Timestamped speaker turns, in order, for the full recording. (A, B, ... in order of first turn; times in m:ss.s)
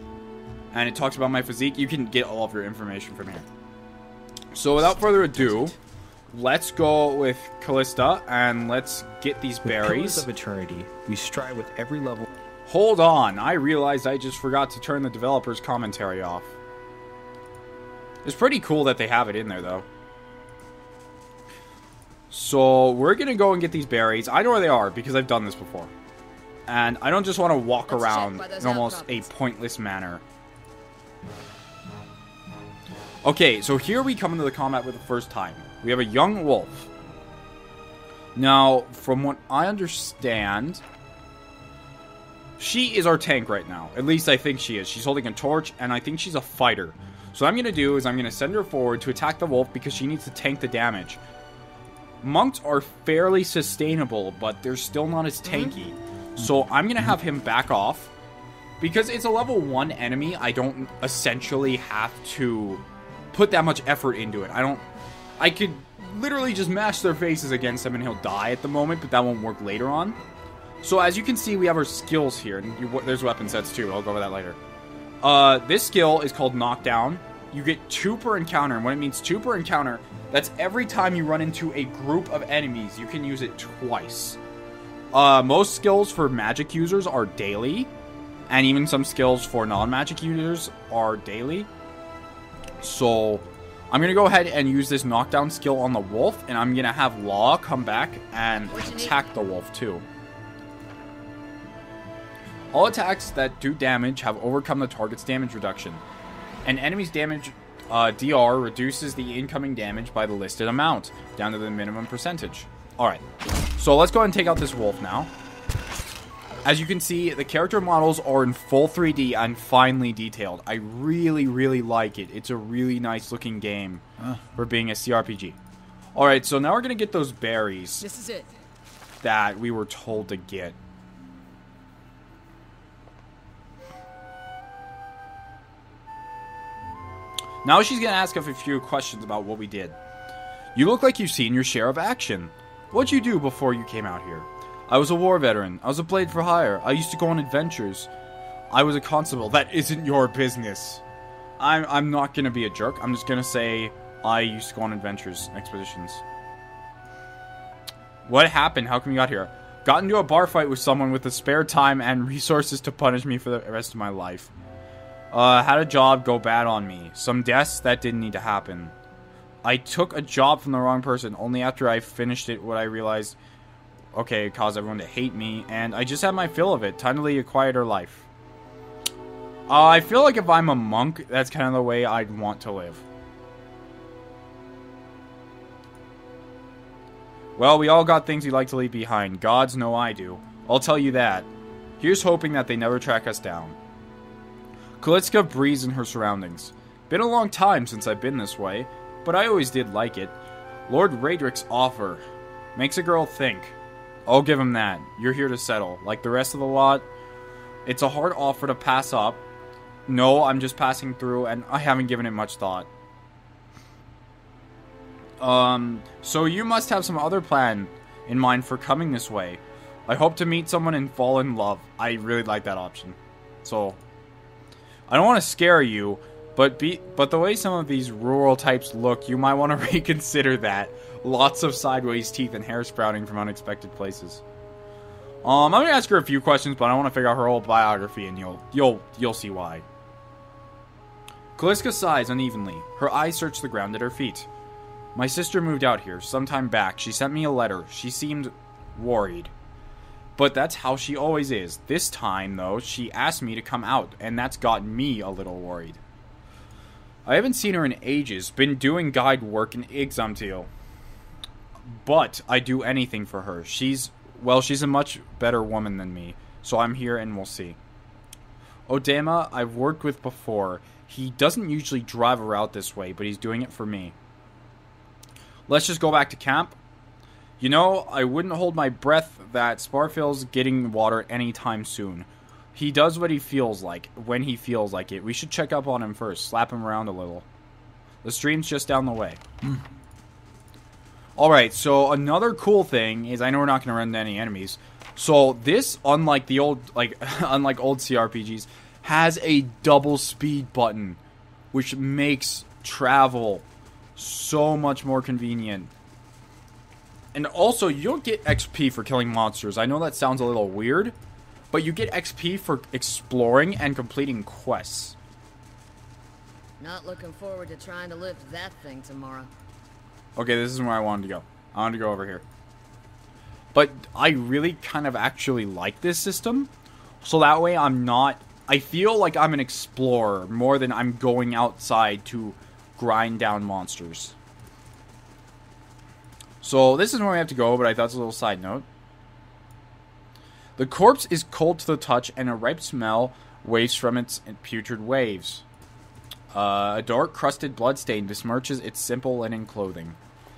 0:00.7-0:03.5 A
0:04.5-0:05.8 A
0:06.3-0:10.3 A
0:09.6-0:12.2 B
0:12.7-0:16.6 A
0:18.2-0:19.9 A
0:22.3-0:25.9 A
0:26.7-0:30.2 A
0:27.9-0:29.3 C
0:33.2-0:36.9 A
0:38.4-0:40.8 A
0:42.6-0:51.2 A
0:52.2-0:58.1 A
0:55.5-0:55.7 C
0:58.8-1:04.8 A
1:05.4-1:10.2 A
1:10.8-1:14.6 A
1:15.2-1:24.4 A
1:25.1-1:27.9 A
1:28.5-1:31.7 A
1:32.8-1:40.0 A
1:38.7-1:39.2 C
1:42.7-1:46.0 A
1:46.6-1:53.2 A
1:53.8-1:55.3 A
1:56.6-2:04.0 A
2:04.6-2:05.6 A
2:06.2-2:08.0 A
2:08.0-2:08.5 C
2:09.2-2:10.8 A
2:17.6-2:20.0 A
2:20.8-2:28.1 A
2:28.7-2:31.0 A
2:31.6-2:36.2 A
2:38.3-2:44.5 A
2:45.3-2:48.9 A
2:49.6-2:53.4 A
2:54.1-2:58.3 A
2:59.7-3:03.0 A
3:07.6-3:11.5 A
3:12.0-3:13.8 A
3:15.0-3:20.4 A
3:20.9-3:22.2 A
3:22.8-3:23.8 A
3:24.3-3:27.1 A
3:27.8-3:29.4 A
3:30.1-3:32.9 A
3:35.4-3:44.0 A
3:45.1-3:54.4 A
3:55.4-3:59.8 A
4:01.6-4:04.5 A
4:05.2-4:09.5 A
4:10.4-4:16.0 A
4:17.3-4:20.7 A
4:21.9-4:27.8 A
4:28.9-4:34.2 A
4:35.7-4:36.8 A
4:37.6-4:47.5 A
4:48.2-4:49.4 A
4:51.4-5:01.2 A
5:01.7-5:03.6 A
5:04.2-5:05.9 A
5:07.3-5:11.2 A
5:11.7-5:15.2 A
5:16.8-5:19.5 C
5:20.4-5:22.4 A
5:23.7-5:26.7 A
5:27.2-5:34.4 A
5:36.6-5:38.8 A
5:40.8-5:45.6 A
5:46.5-5:50.2 A